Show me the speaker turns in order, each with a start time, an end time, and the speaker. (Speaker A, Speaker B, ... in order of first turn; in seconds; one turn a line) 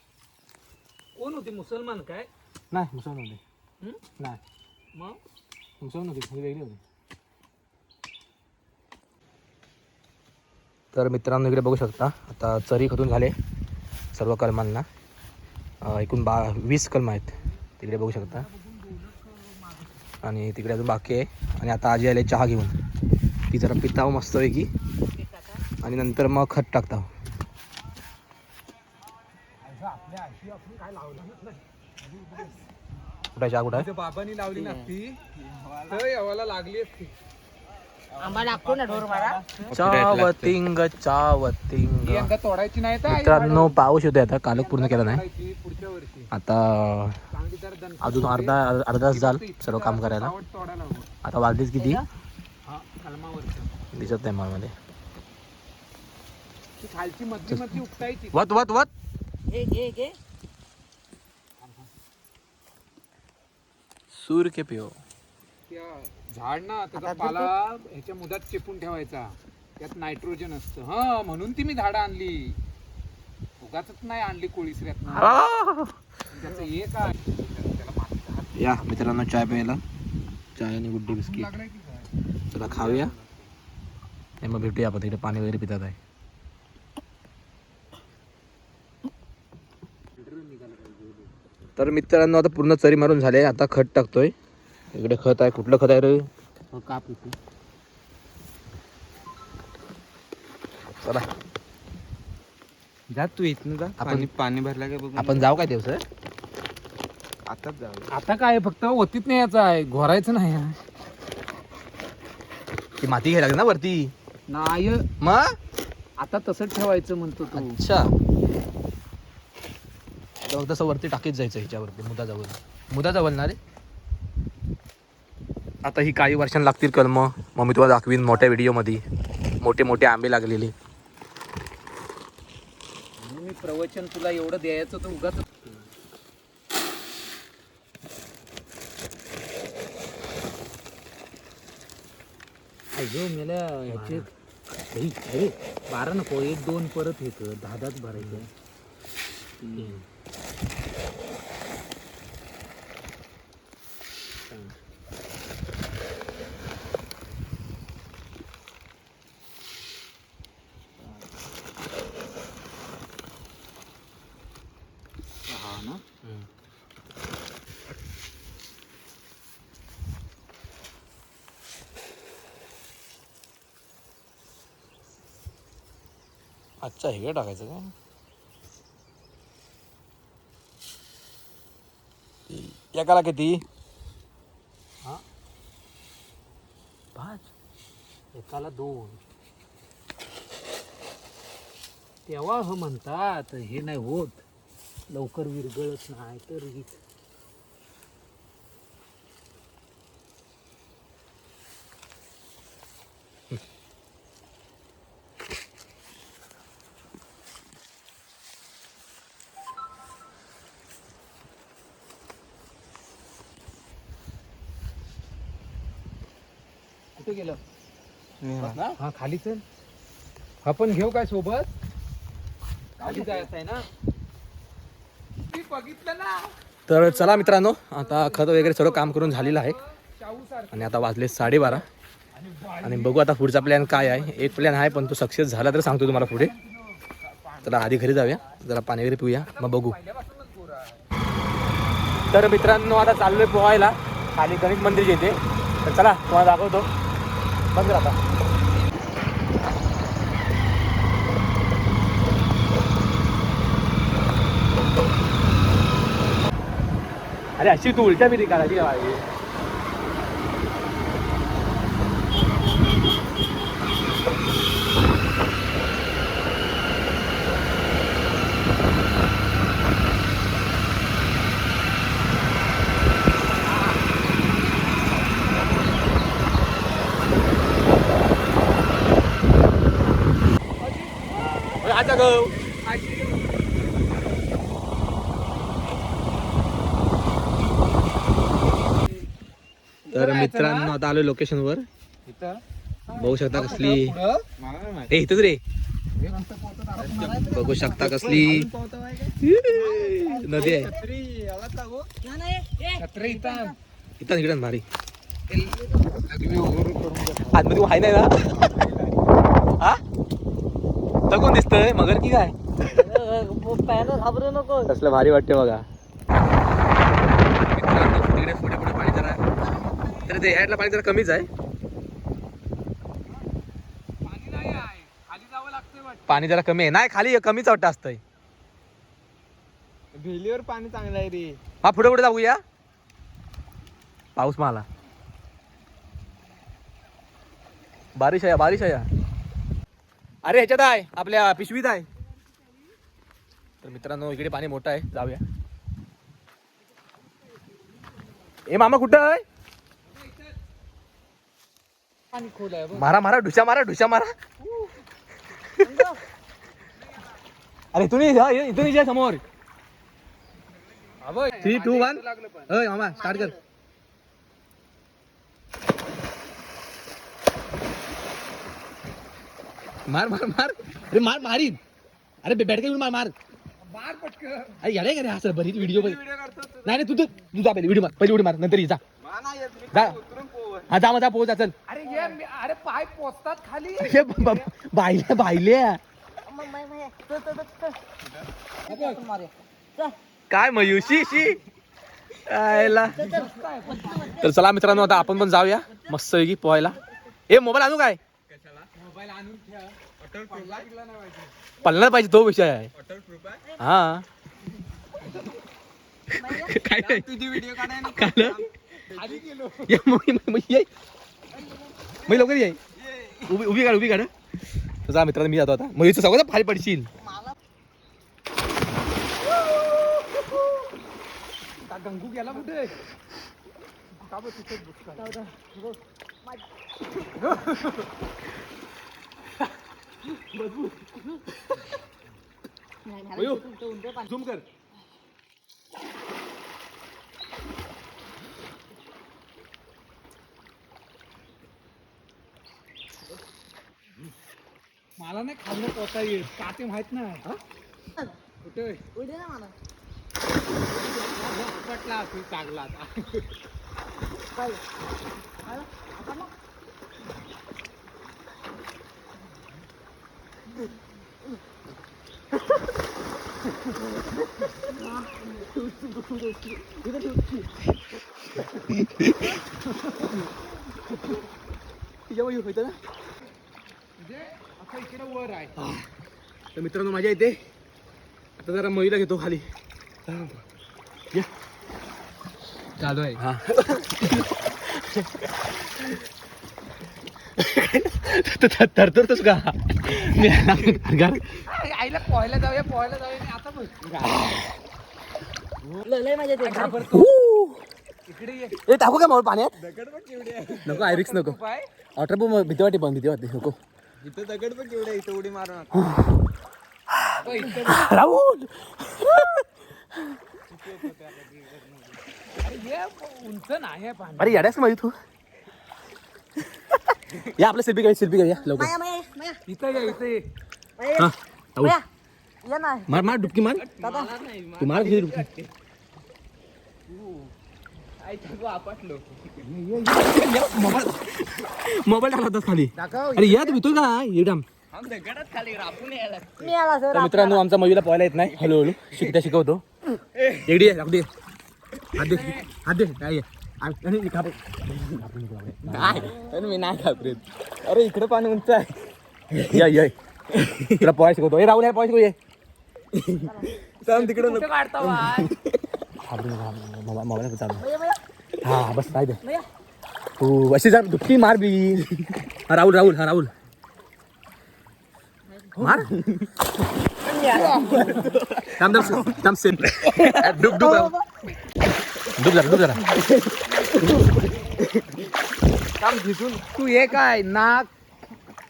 Speaker A: 1.2-2.3
Speaker B: 2.7-3.4
Speaker B: 5.8-6.8
Speaker B: 10.9-13.3
Speaker B: 14.1-14.9
Speaker B: 15.8-18.5
Speaker A: 18.0-19.9
Speaker B: 20.2-22.8
Speaker B: 23.5-24.7
Speaker B: 25.8-27.1
Speaker A: 29.6-32.6
Speaker B: 33.4-33.9
Speaker A: 33.7-35.2
Speaker C: 35.3-36.0
Speaker A: 35.9-37.1
Speaker C: 38.1-40.5
Speaker D: 38.2-39.4
Speaker B: 39.7-42.3
Speaker A: 42.0-43.8
Speaker B: 43.1-45.2
Speaker A: 44.5-46.3
Speaker B: 46.3-47.2
Speaker A: 47.3-51.1
Speaker B: 48.0-50.3
Speaker B: 51.2-52.0
Speaker D: 51.8-52.1
Speaker A: 52.6-53.8
Speaker B: 53.9-54.7
Speaker A: 56.8-58.4
Speaker B: 57.5-57.8
Speaker B: 58.3-58.9
Speaker D: 59.5-60.2
Speaker A: 61.6-61.9
Speaker B: 64.1-65.0
Speaker A: 65.7-72.6
Speaker D: 67.0-67.5
Speaker A: 73.6-75.4
Speaker B: 75.1-75.9
Speaker A: 76.3-78.9
Speaker B: 78.5-79.8
Speaker B: 80.5-81.5
Speaker A: 81.1-82.1
Speaker B: 82.5-83.1
Speaker A: 82.7-83.0
Speaker C: 82.9-83.3
Speaker B: 84.4-86.0
Speaker A: 90.2-91.3
Speaker B: 91.8-94.3
Speaker B: 94.9-96.3
Speaker A: 96.7-97.3
Speaker A: 103.1-104.0
Speaker C: 104.0-105.5
Speaker B: 104.0-104.3
Speaker B: 105.2-106.0
Speaker C: 107.5-108.1
Speaker A: 108.1-110.8
Speaker B: 113.0-114.1
Speaker A: 114.5-115.1
Speaker B: 115.2-115.5
Speaker A: 116.2-117.8
Speaker B: 117.5-118.1
Speaker B: 120.4-123.6
Speaker B: 125.8-129.0
Speaker B: 129.6-130.7
Speaker A: 133.2-135.7
Speaker A: 142.9-144.3
Speaker B: 143.9-144.2
Speaker A: 144.9-148.5
Speaker B: 148.1-148.4
Speaker A: 149.6-150.0
Speaker A: 165.5-166.0
Speaker B: 176.8-177.9
Speaker B: 182.5-183.6
Speaker A: 187.2-187.4
Speaker A: 188.3-189.2
Speaker A: 192.3-194.4
Speaker A: 195.1-197.0
Speaker A: 217.2-217.6
Speaker C: 218.4-218.8
Speaker B: 218.6-219.0
Speaker A: 219.0-219.6
Speaker A: 220.6-221.7
Speaker A: 223.0-223.8
Speaker A: 225.5-231.0
Speaker B: 226.9-229.8
Speaker B: 230.7-231.9
Speaker A: 232.3-235.2
Speaker B: 232.8-236.5
Speaker A: 235.9-238.4
Speaker B: 237.6-240.0
Speaker A: 239.4-241.1
Speaker B: 242.3-246.9
Speaker B: 247.7-248.2
Speaker B: 257.6-259.2
Speaker A: 280.8-283.6
Speaker B: 281.8-282.6
Speaker A: 290.1-290.9
Speaker B: 290.1-291.9
Speaker A: 292.2-292.6
Speaker B: 293.1-294.2
Speaker A: 293.2-294.4
Speaker C: 294.6-295.1
Speaker B: 295.1-295.6
Speaker A: 296.2-297.8
Speaker C: 297.0-299.4
Speaker D: 297.2-297.7
Speaker B: 297.5-298.7
Speaker B: 299.4-300.9
Speaker D: 299.7-301.0
Speaker C: 300.3-302.1
Speaker D: 302.2-303.7
Speaker A: 303.0-303.7
Speaker B: 304.2-304.8
Speaker A: 305.5-307.7
Speaker D: 305.7-306.1
Speaker B: 307.5-308.7
Speaker C: 308.5-309.2
Speaker B: 311.3-312.6
Speaker D: 312.9-314.9
Speaker B: 314.9-315.9
Speaker B: 317.7-319.4
Speaker D: 319.8-320.1
Speaker B: 320.2-321.5
Speaker A: 324.2-326.5
Speaker B: 326.3-328.2
Speaker C: 330.1-331.6
Speaker B: 331.8-332.6
Speaker B: 334.4-334.9
Speaker B: 338.1-339.1
Speaker B: 340.4-342.1
Speaker B: 343.8-345.4
Speaker B: 348.6-349.4
Speaker A: 352.3-353.1
Speaker B: 352.9-354.3
Speaker B: 355.6-356.0
Speaker D: 355.8-356.2
Speaker B: 357.9-359.4
Speaker A: 361.2-362.7
Speaker B: 361.6-363.5
Speaker D: 363.1-363.6
Speaker B: 370.1-371.8
Speaker B: 372.4-373.3
Speaker A: 373.8-374.8
Speaker B: 374.8-376.2
Speaker C: 375.7-377.1
Speaker B: 376.8-379.0
Speaker C: 379.2-380.9
Speaker B: 379.9-380.2
Speaker B: 380.9-381.7
Speaker A: 381.9-384.6
Speaker D: 382.0-382.4
Speaker B: 384.0-386.0
Speaker D: 386.4-388.0
Speaker D: 388.8-390.1
Speaker B: 390.5-391.6
Speaker B: 392.3-393.2
Speaker D: 392.6-396.2
Speaker A: 393.1-394.4
Speaker B: 394.4-398.2
Speaker D: 396.9-397.3
Speaker C: 398.5-398.9
Speaker A: 398.9-401.5
Speaker C: 400.2-400.9
Speaker B: 401.8-402.9
Speaker C: 402.9-403.6
Speaker D: 403.7-404.0
Speaker B: 403.8-404.2
Speaker D: 406.3-406.8
Speaker B: 406.4-408.6
Speaker C: 406.9-409.4
Speaker A: 409.1-409.9
Speaker B: 409.8-410.9
Speaker D: 411.5-411.9
Speaker B: 412.2-412.8
Speaker C: 412.9-413.5
Speaker B: 413.4-414.3
Speaker B: 415.0-417.1
Speaker A: 421.8-422.9
Speaker A: 424.2-425.4
Speaker D: 425.1-426.6
Speaker A: 427.4-427.9
Speaker B: 430.5-430.9
Speaker D: 433.0-434.3
Speaker B: 433.4-433.6
Speaker B: 434.2-434.6
Speaker A: 445.2-447.4
Speaker A: 448.6-449.1
Speaker D: 449.1-449.7
Speaker A: 450.9-453.5
Speaker D: 454.5-454.8
Speaker D: 455.6-456.5
Speaker B: 465.6-467.7
Speaker B: 468.9-469.5
Speaker B: 472.3-473.0
Speaker A: 474.2-475.8
Speaker B: 475.8-476.1
Speaker B: 476.7-477.6
Speaker B: 478.6-479.7
Speaker B: 480.3-480.6
Speaker A: 483.0-483.3
Speaker B: 483.4-485.3
Speaker B: 487.6-491.4
Speaker A: 491.6-494.0
Speaker C: 494.1-494.4
Speaker B: 494.4-494.7
Speaker D: 496.0-497.1
Speaker A: 496.6-497.3
Speaker B: 497.1-497.8
Speaker A: 498.3-498.8
Speaker B: 498.8-499.7
Speaker C: 499.8-500.9
Speaker B: 500.9-501.6
Speaker A: 500.9-501.9
Speaker B: 502.1-503.8
Speaker C: 504.2-506.0
Speaker B: 506.0-506.3
Speaker B: 507.2-509.6
Speaker C: 507.4-508.1
Speaker A: 507.4-507.9
Speaker C: 510.7-512.2
Speaker A: 512.5-514.7
Speaker B: 514.4-515.1
Speaker B: 517.4-518.9
Speaker D: 518.6-519.6
Speaker A: 519.7-520.4
Speaker D: 521.0-522.0
Speaker B: 521.2-522.0
Speaker D: 522.6-523.5
Speaker B: 523.1-523.8
Speaker C: 523.7-525.7
Speaker D: 524.0-524.3
Speaker B: 524.8-525.5
Speaker C: 527.1-527.5
Speaker C: 528.2-529.6
Speaker A: 529.6-531.0
Speaker B: 530.0-534.6
Speaker A: 533.0-533.8
Speaker C: 534.9-536.7
Speaker D: 536.6-537.6
Speaker B: 537.1-539.8
Speaker C: 538.6-539.4
Speaker C: 540.3-540.7
Speaker B: 540.6-541.3
Speaker B: 542.1-546.4
Speaker C: 542.2-542.6
Speaker C: 545.9-549.8
Speaker D: 546.1-546.8
Speaker B: 549.7-550.1
Speaker C: 550.5-551.1
Speaker B: 551.0-552.4
Speaker C: 553.1-555.7
Speaker D: 553.4-553.8
Speaker A: 554.2-555.3
Speaker D: 554.4-555.5
Speaker B: 556.2-557.8
Speaker D: 557.8-558.2
Speaker B: 558.6-559.4
Speaker D: 559.4-559.7
Speaker B: 560.4-563.5
Speaker D: 565.5-565.8
Speaker B: 565.8-566.1
Speaker C: 565.9-566.5
Speaker C: 567.2-570.5
Speaker D: 567.3-568.2
Speaker A: 567.4-568.3
Speaker B: 568.8-571.1
Speaker D: 570.6-571.5
Speaker B: 572.4-573.1
Speaker D: 573.8-574.1
Speaker A: 576.0-577.9